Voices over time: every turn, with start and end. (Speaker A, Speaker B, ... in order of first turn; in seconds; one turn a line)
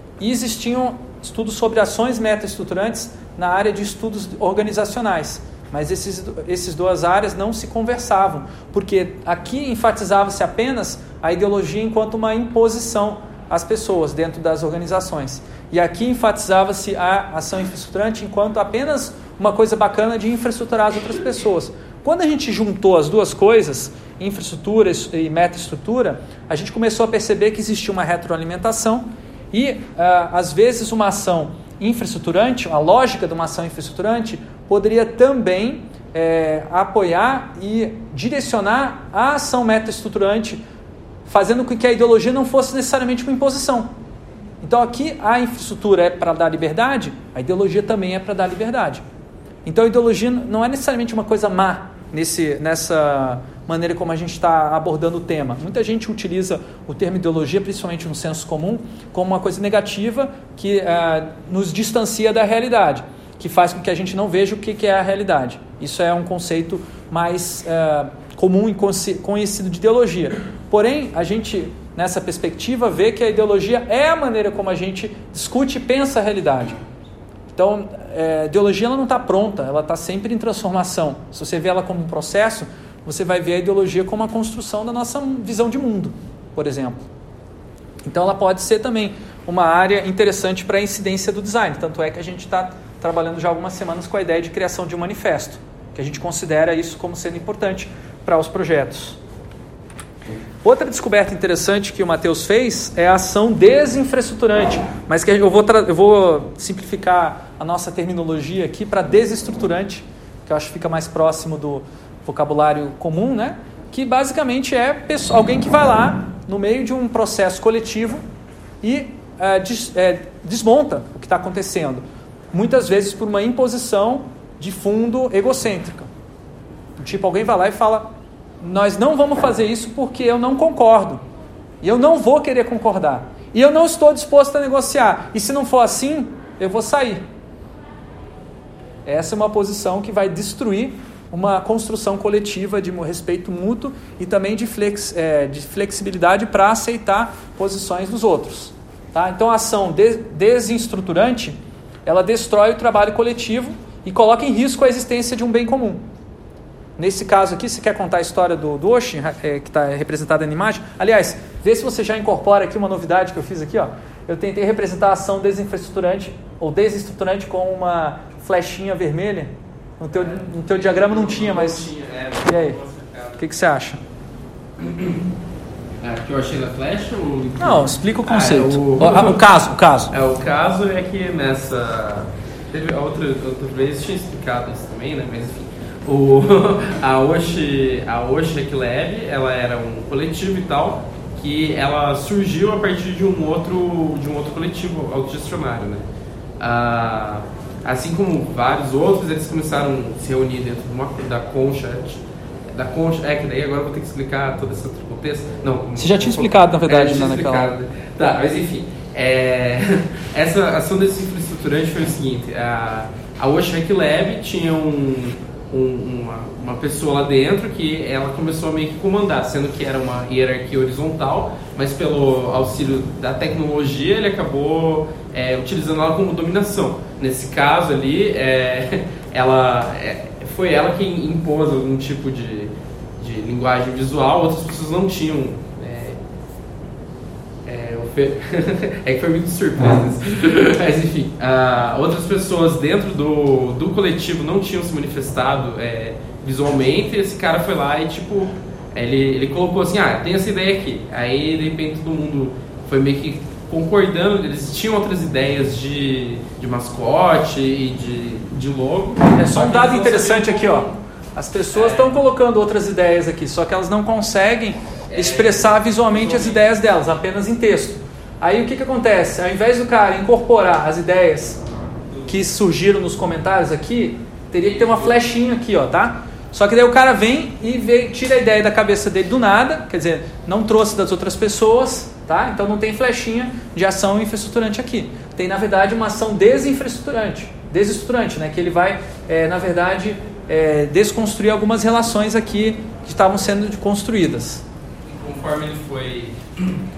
Speaker A: 0.2-40.6
Speaker A: 41.2-43.9
Speaker A: 44.6-49.0
Speaker A: 49.6-76.8
Speaker A: 77.5-87.0
Speaker A: 88.0-99.2
Speaker A: 100.6-118.2
Speaker A: 118.8-126.1
Speaker A: 127.0-128.1
Speaker A: 128.6-131.2
Speaker A: 131.8-137.2
Speaker A: 139.1-156.0
Speaker A: 157.0-171.9
Speaker B: 170.1-173.4
Speaker A: 172.4-172.8
Speaker A: 173.4-174.0
Speaker B: 174.8-175.2
Speaker B: 176.0-179.4
Speaker A: 177.6-180.1
Speaker B: 180.1-196.0
Speaker B: 196.6-202.2
Speaker B: 202.7-236.2
Speaker A: 206.0-207.7
Speaker B: 237.6-261.0
Speaker A: 259.3-271.6
Speaker B: 261.7-262.2
Speaker B: 265.1-266.6
Speaker B: 272.1-272.4
Speaker A: 272.3-294.6
Speaker B: 274.7-275.1
Speaker B: 295.1-296.8